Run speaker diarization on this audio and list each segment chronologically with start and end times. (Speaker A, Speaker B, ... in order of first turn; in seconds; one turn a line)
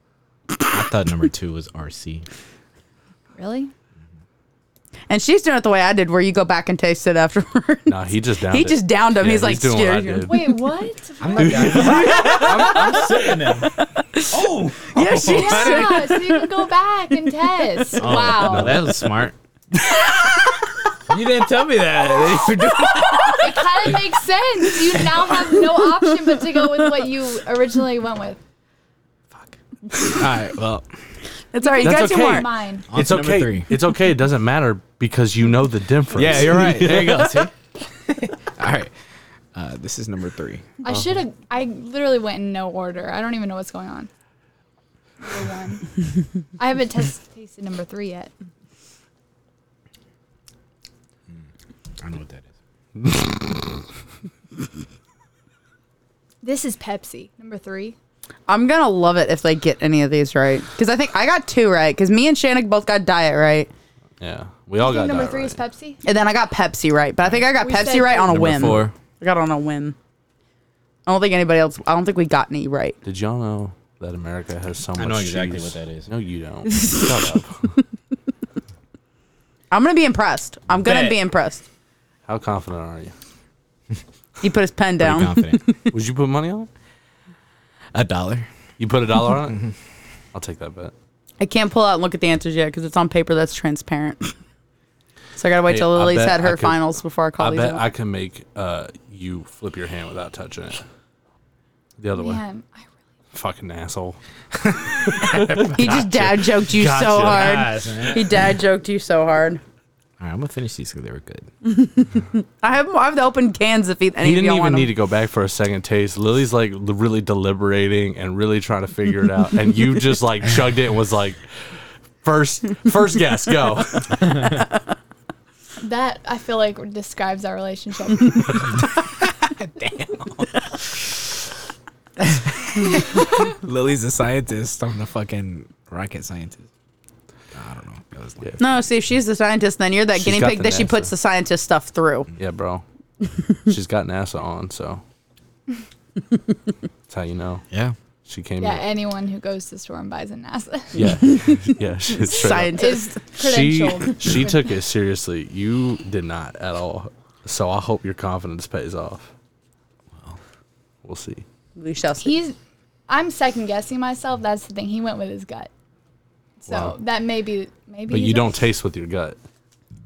Speaker A: 0.7-2.3
Speaker B: 3.4-3.7
Speaker C: 5.1-8.0
Speaker D: 7.9-10.4
Speaker C: 8.5-10.3
Speaker B: 10.3-12.1
Speaker A: 11.2-13.7
Speaker D: 11.4-12.9
Speaker C: 12.0-13.0
Speaker C: 13.8-16.5
Speaker A: 14.3-16.1
Speaker B: 15.2-18.9
Speaker A: 18.0-19.4
Speaker C: 18.0-18.3
Speaker D: 18.4-18.8
Speaker A: 21.1-23.4
Speaker C: 22.4-23.9
Speaker B: 23.4-28.4
Speaker C: 24.9-26.9
Speaker A: 30.1-30.9
Speaker C: 31.5-32.5
Speaker B: 31.6-32.9
Speaker D: 31.8-37.5
Speaker A: 32.9-33.7
Speaker A: 36.1-37.5
Speaker A: 38.1-38.9
Speaker A: 39.5-40.7
Speaker B: 40.8-44.1
Speaker B: 45.2-45.9
Speaker B: 46.6-48.3
Speaker A: 52.0-52.5
Speaker B: 56.4-58.0
Speaker C: 58.5-63.7
Speaker D: 64.2-65.6
Speaker B: 64.8-66.0
Speaker C: 66.0-70.0
Speaker B: 67.5-68.4
Speaker A: 68.3-68.9
Speaker D: 68.3-68.9
Speaker C: 71.1-73.0
Speaker D: 73.0-77.8
Speaker A: 75.0-76.1
Speaker C: 79.7-81.6
Speaker A: 80.8-81.2
Speaker D: 82.3-83.1
Speaker C: 84.4-85.8
Speaker A: 85.0-85.6
Speaker D: 85.9-86.7
Speaker A: 87.9-88.5
Speaker D: 88.8-89.6
Speaker D: 90.3-90.9
Speaker C: 91.4-94.3
Speaker C: 95.4-97.8
Speaker D: 95.7-96.8
Speaker D: 97.4-100.8
Speaker D: 102.0-102.4
Speaker B: 102.1-102.9
Speaker D: 103.3-104.2
Speaker D: 105.0-107.8
Speaker A: 105.3-105.9
Speaker C: 105.8-109.6
Speaker A: 107.2-108.3
Speaker A: 110.2-111.5
Speaker C: 111.7-114.9
Speaker D: 114.2-124.3
Speaker B: 125.8-128.7
Speaker A: 129.5-130.5
Speaker A: 132.8-136.7
Speaker A: 137.5-138.6
Speaker C: 138.6-142.3
Speaker D: 140.2-141.1
Speaker D: 142.4-142.8
Speaker D: 143.7-145.0
Speaker D: 147.1-147.6
Speaker D: 148.3-148.8
Speaker B: 148.6-151.0
Speaker D: 150.9-159.3
Speaker C: 152.3-153.2
Speaker B: 152.7-154.6
Speaker D: 161.0-161.4
Speaker C: 161.8-162.3
Speaker B: 162.2-162.6
Speaker B: 163.1-165.7
Speaker B: 166.6-168.5
Speaker D: 166.7-167.0
Speaker D: 168.1-169.4